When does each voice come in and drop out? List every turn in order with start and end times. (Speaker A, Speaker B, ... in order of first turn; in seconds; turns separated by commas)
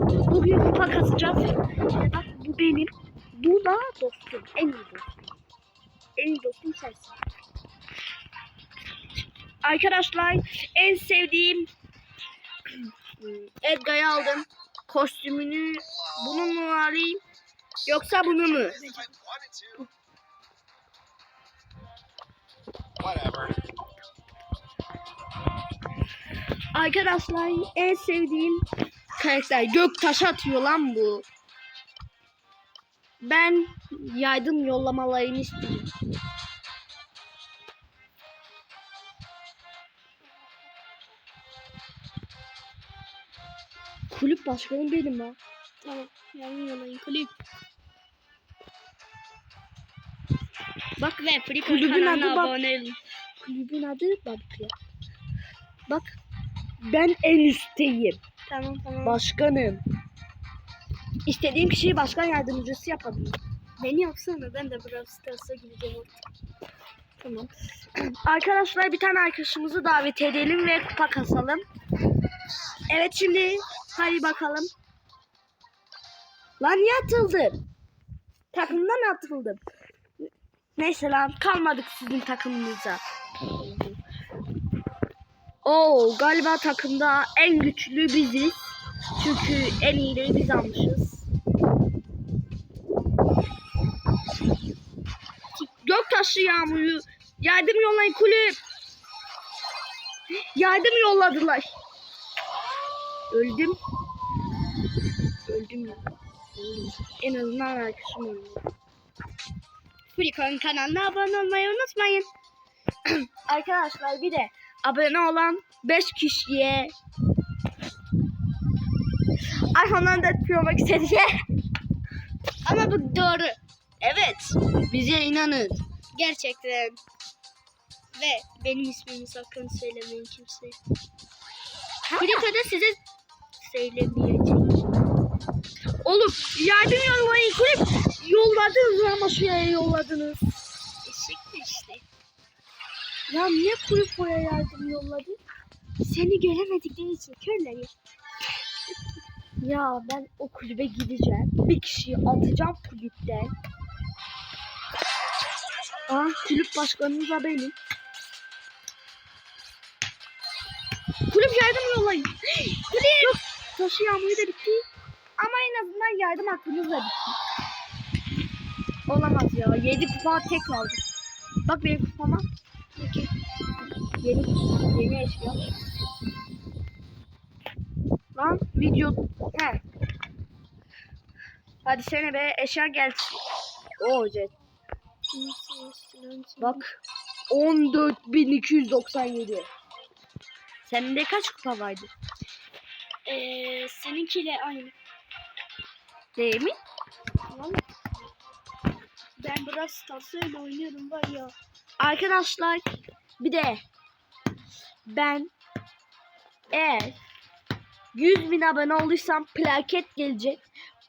Speaker A: 0.3-5.0, Speaker A: 6.2-7.1, Speaker A: 9.6-11.7, Speaker A: 13.2-17.2, Speaker A: 17.9-19.0, Speaker A: 26.7-28.6, Speaker A: 29.2-31.2, Speaker A: 33.2-35.9, Speaker A: 44.1-45.4, Speaker B: 45.8-47.3, Speaker B: 51.0-53.0, Speaker A: 51.6-52.5, Speaker A: 53.4-54.7, Speaker A: 55.9-56.1, Speaker A: 56.8-58.2, Speaker B: 58.5-59.2, Speaker A: 59.0-59.8, Speaker A: 61.2-63.4, Speaker B: 63.8-66.2, Speaker B: 67.2-67.5, Speaker A: 68.2-71.6, Speaker A: 72.9-74.7, Speaker A: 76.6-77.6, Speaker A: 78.5-79.6, Speaker A: 80.8-83.0, Speaker A: 83.5-84.0, Speaker A: 85.6-88.5, Speaker A: 89.2-91.2, Speaker A: 95.6-98.6, Speaker A: 100.5-101.7, Speaker A: 103.3-103.8, Speaker A: 105.5-106.0, Speaker A: 106.5-108.6, Speaker B: 110.1-112.3, Speaker A: 113.5-116.9, Speaker A: 119.7-121.3, Speaker B: 122.7-124.5, Speaker A: 124.9-125.8, Speaker B: 126.1-127.0, Speaker B: 128.1-130.8, Speaker B: 132.1-133.0, Speaker B: 133.6-134.8, Speaker A: 136.0-140.4, Speaker B: 141.0-142.0, Speaker A: 143.3-145.4, Speaker B: 146.0-147.9, Speaker A: 149.6-153.5, Speaker A: 156.1-157.8, Speaker A: 161.3-162.3, Speaker B: 162.7-163.3, Speaker A: 163.0-164.8, Speaker A: 165.4-167.3, Speaker A: 169.1-171.0, Speaker A: 171.6-172.4, Speaker B: 173.0-173.3, Speaker A: 174.2-175.6, Speaker A: 178.3-179.8, Speaker A: 181.8-183.4, Speaker A: 184.0-184.5, Speaker B: 185.3-186.8, Speaker A: 186.6-186.9, Speaker A: 187.5-189.7, Speaker A: 190.8-192.1, Speaker B: 193.2-194.9, Speaker A: 196.3-196.8, Speaker B: 197.5-197.8, Speaker B: 199.4-201.5, Speaker A: 202.0-203.8, Speaker A: 205.1-205.5, Speaker A: 206.7-207.2, Speaker A: 208.1-210.6